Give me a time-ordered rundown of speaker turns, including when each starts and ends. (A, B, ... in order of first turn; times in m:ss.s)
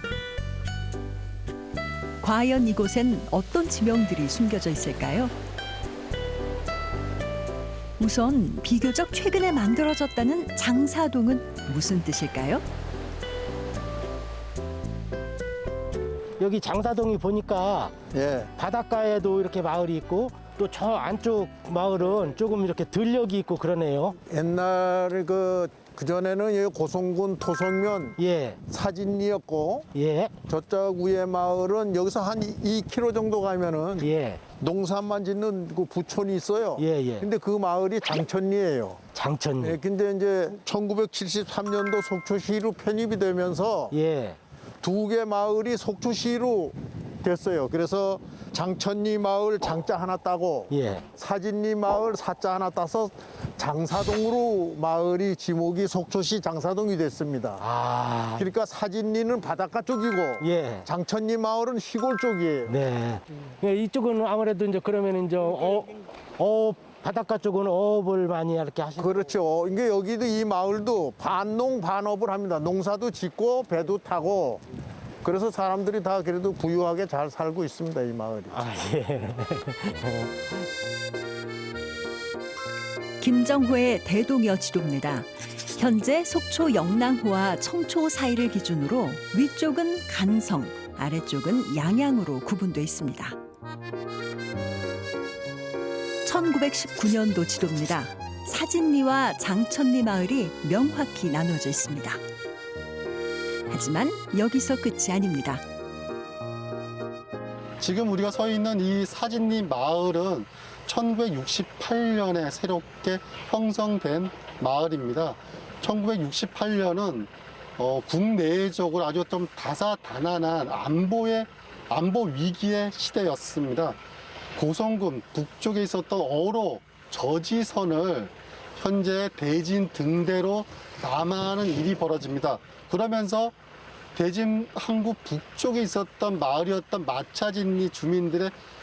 0:02.2-0:05.3 A
0:08.0-0:12.6 A
0:16.4-0:18.0 B
0:18.1-0:18.5 C
0:18.6-0:24.2 B
0:24.3-0:29.9 C
0:28.2-0:28.6 B
0:29.9-0:30.4 B
0:30.5-0:39.0 C
0:34.0-0:34.5 B
0:36.8-0:37.3 B
0:39.1-0:39.8 B
0:39.6-0:44.0 C
0:43.9-0:44.4 B
0:44.8-0:57.7 C
0:50.7-0:51.1 B
0:57.6-0:58.5 B
0:58.4-1:02.8 C
1:00.4-1:00.9 B
1:02.7-1:09.4 B
1:09.0-1:14.6 C
1:15.2-1:18.6 C
1:18.5-1:20.7 B
1:23.2-1:33.4 A
1:36.2-1:42.2 A
1:43.7-1:45.6 A
1:47.8-2:04.0 D
2:04.6-2:13.5 D
2:14.2-2:18.6 D